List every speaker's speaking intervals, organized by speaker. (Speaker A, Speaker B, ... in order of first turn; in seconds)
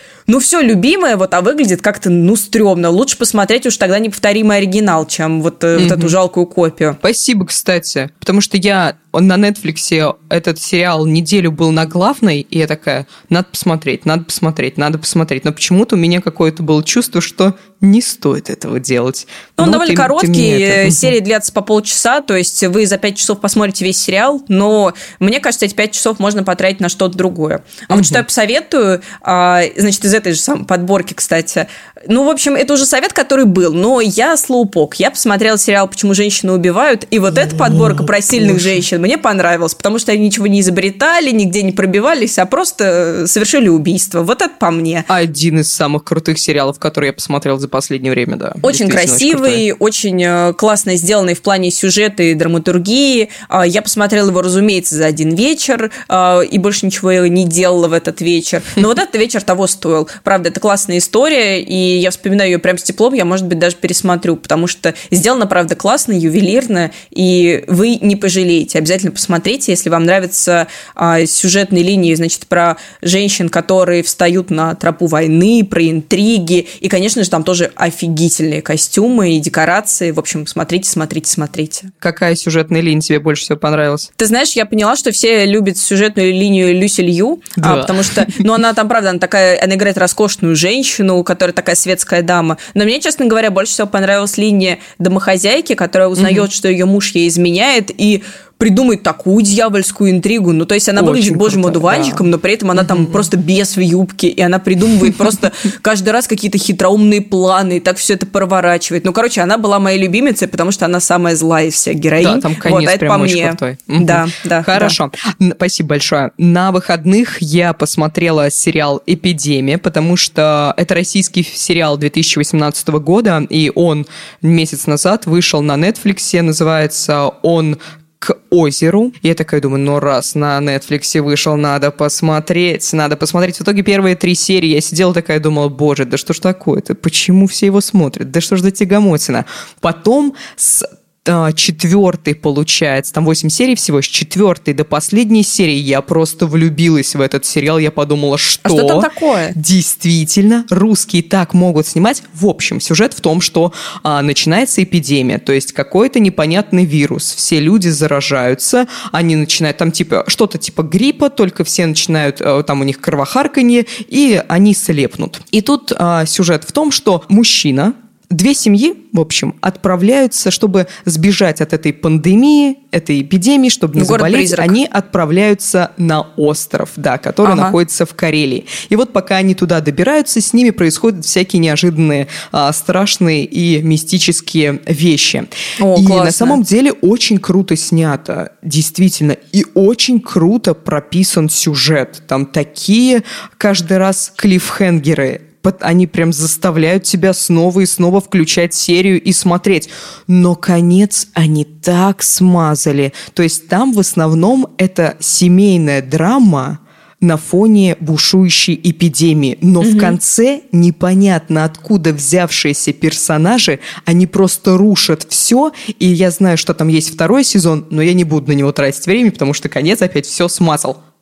Speaker A: 0.3-7.0, 19.6-45.1, 48.6-81.9, 84.2-115.0, 148.7-149.6, 174.0-174.7, 177.4-177.8, 185.8-186.6, 209.8-210.2
Speaker B: 5.8-6.2, 7.0-21.1, 27.9-28.2, 37.3-38.9, 45.1-49.6, 82.0-84.1, 87.6-88.4, 96.2-96.5, 101.0-102.3, 102.9-103.2, 112.2-221.0